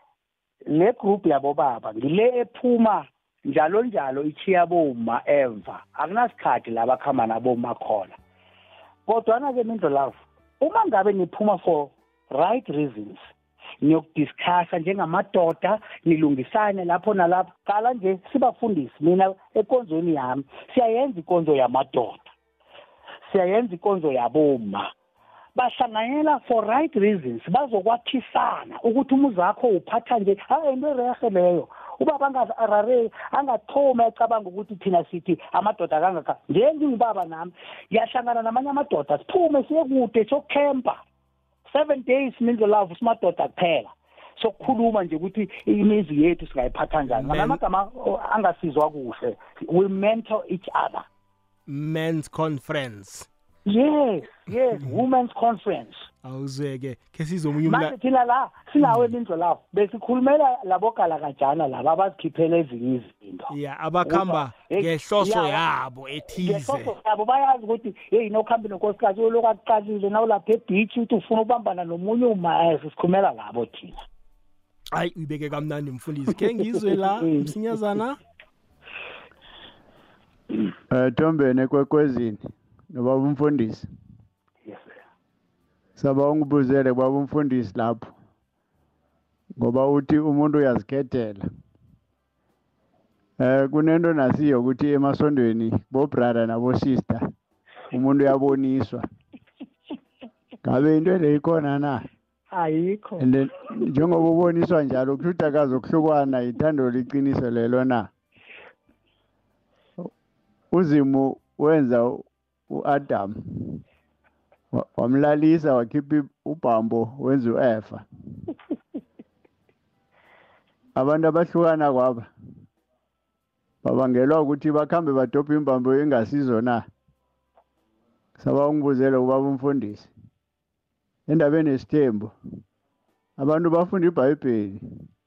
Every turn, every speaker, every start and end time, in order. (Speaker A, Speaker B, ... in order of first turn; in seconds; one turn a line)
Speaker A: 0.7-8.2
Speaker A: 9.1-13.3
Speaker A: 13.8-22.3
Speaker A: 23.3-24.9
Speaker A: 25.6-41.0
Speaker A: 41.7-51.0
Speaker B: 47.1-47.6
Speaker B: 51.7-53.3
Speaker A: 53.6-56.1
Speaker B: 56.2-57.9
Speaker A: 57.6-63.5
Speaker B: 58.8-59.1
Speaker B: 63.5-66.9
Speaker A: 64.0-65.6
Speaker A: 66.4-74.0
Speaker B: 74.9-78.2
Speaker C: 80.9-83.9
Speaker A: 84.7-84.9
Speaker C: 86.0-88.1
Speaker C: 89.6-91.5
Speaker C: 93.4-97.2
Speaker C: 97.9-99.0
Speaker C: 100.6-102.0
Speaker A: 102.5-103.2
Speaker C: 103.2-108.1
Speaker C: 110.7-113.8
Speaker C: 114.7-118.0
Speaker C: 121.0-122.3
Speaker C: 123.8-126.8
Speaker C: 128.4-130.1
Speaker C: 131.3-132.3
Speaker C: 133.4-134.8